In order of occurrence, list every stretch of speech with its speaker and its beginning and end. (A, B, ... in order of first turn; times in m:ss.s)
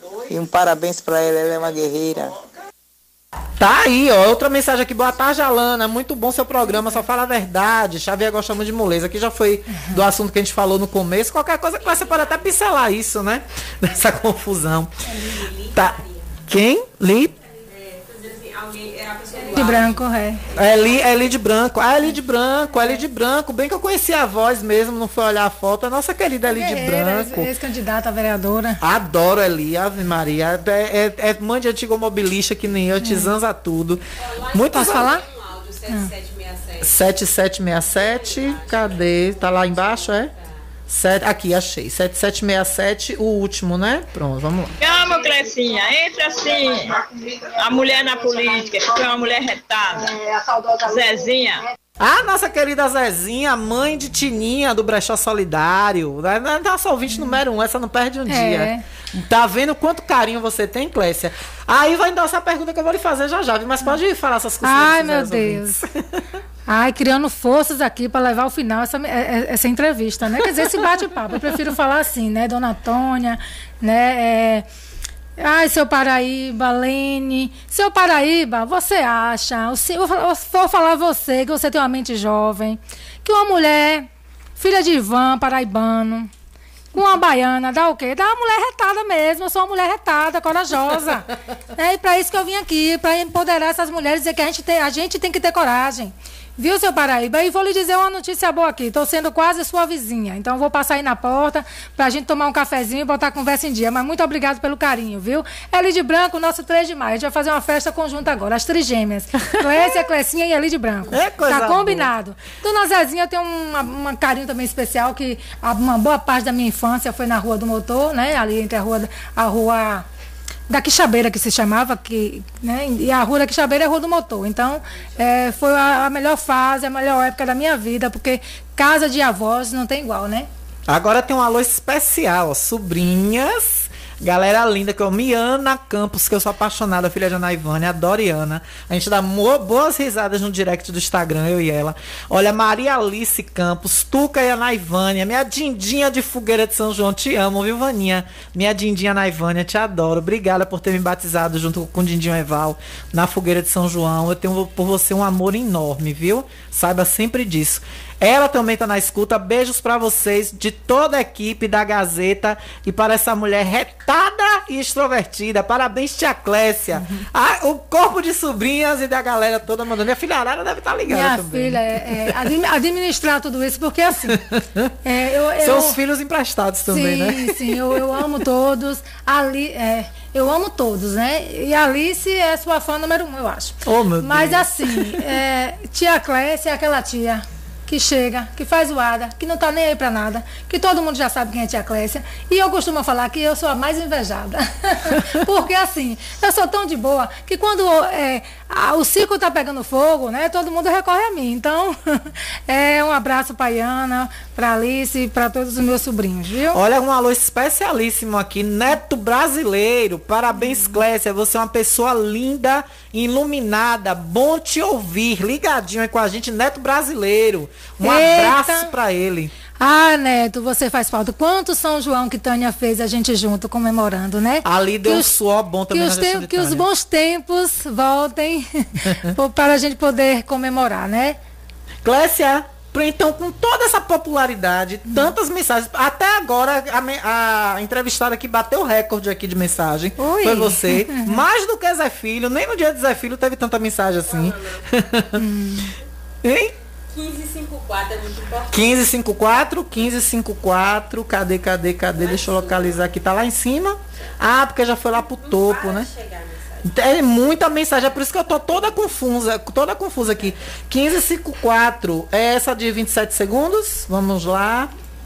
0:00.3-0:02.3 A
0:03.6-0:14.9 B
0:15.7-0:17.3 B
0:17.9-0:19.9 C
0:19.4-0:20.4 D
0:20.5-0:27.5 B
0:26.4-0:28.8 D
0:28.8-0:35.1 B
0:33.0-0:33.3 D
0:34.6-0:36.8 C
0:34.7-0:35.2 D
0:35.9-0:36.1 D
0:36.8-0:40.3 B
0:38.2-0:39.0 C
0:40.9-0:44.7 B
0:44.8-0:51.6 E
0:52.0-1:05.6 B
0:58.3-0:58.8 D
1:04.6-1:05.8 D
1:06.7-1:14.6 D
1:15.4-1:24.1 D
1:24.6-1:26.3 D
1:26.9-2:00.0 D
1:49.5-1:49.9 B
1:51.1-1:52.1 B
2:00.7-2:10.5 D
2:10.9-2:52.3 B
2:46.9-2:47.2 D
2:51.1-2:54.3 D
2:54.3-2:54.9 B
2:55.0-2:56.0 D
2:55.6-2:58.0 B
2:56.9-3:26.8 D
3:03.8-3:05.2 B
3:26.7-3:39.5 B
3:30.6-3:30.9 D
3:38.0-3:38.9 D
3:39.8-3:45.3 D
3:44.6-3:46.8 B
3:45.9-3:51.4 D
3:52.0-4:05.4 B
4:00.2-4:01.4 D
4:05.4-4:05.9 D
4:06.4-4:06.7 B
4:07.2-4:08.7 C
4:08.7-4:16.1 B
4:16.1-4:16.5 C
4:16.8-4:24.9 B